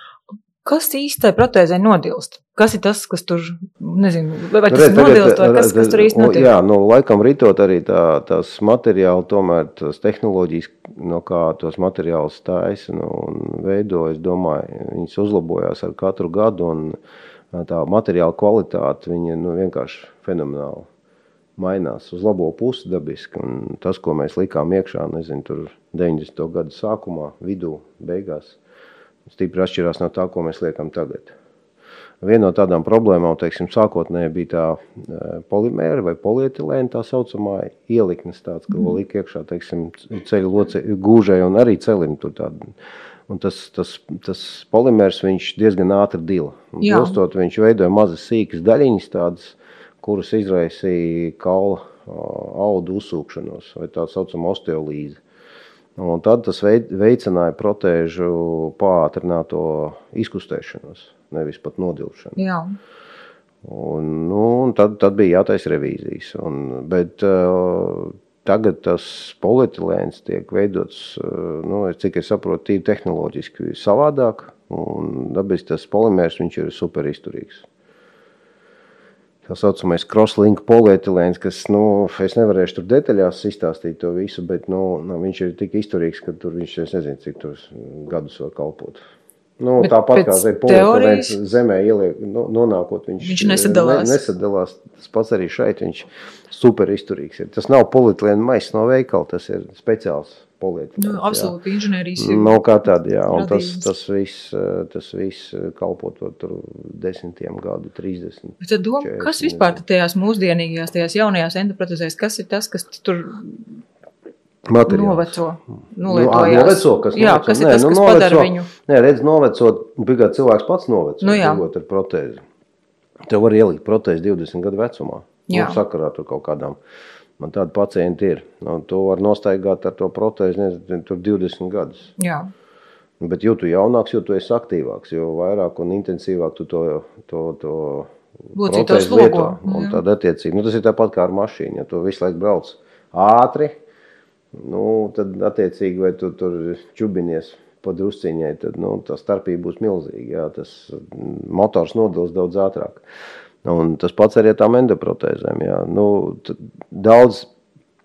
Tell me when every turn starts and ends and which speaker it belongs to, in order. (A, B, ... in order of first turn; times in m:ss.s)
0:00.6-0:06.5 A
0:04.7-0:17.0 B
0:17.5-0:20.9 B
0:21.6-0:28.6 B
0:29.3-0:31.3 B
0:32.2-0:42.7 B
0:43.3-0:55.2 B
0:46.8-0:47.2 A
0:56.0-1:02.4 B
1:02.4-1:02.8 A
1:03.6-1:17.7 B
1:19.5-1:29.0 B
1:29.6-1:41.5 B
1:29.8-1:31.4 A
1:33.2-1:34.2 A
1:41.0-1:42.6 A
1:42.2-1:49.8 B
1:43.3-1:43.9 A
1:48.6-1:53.8 A
1:54.7-1:55.4 B
1:54.9-1:58.7 A
1:56.1-2:02.4 B
2:01.2-2:01.6 A
2:03.3-2:06.8 B
2:05.5-2:05.8 A
2:07.4-2:12.1 B
2:12.2-2:12.5 A
2:13.2-2:23.8 B
2:18.6-2:20.0 A
2:24.5-2:33.0 B
2:33.6-2:37.5 B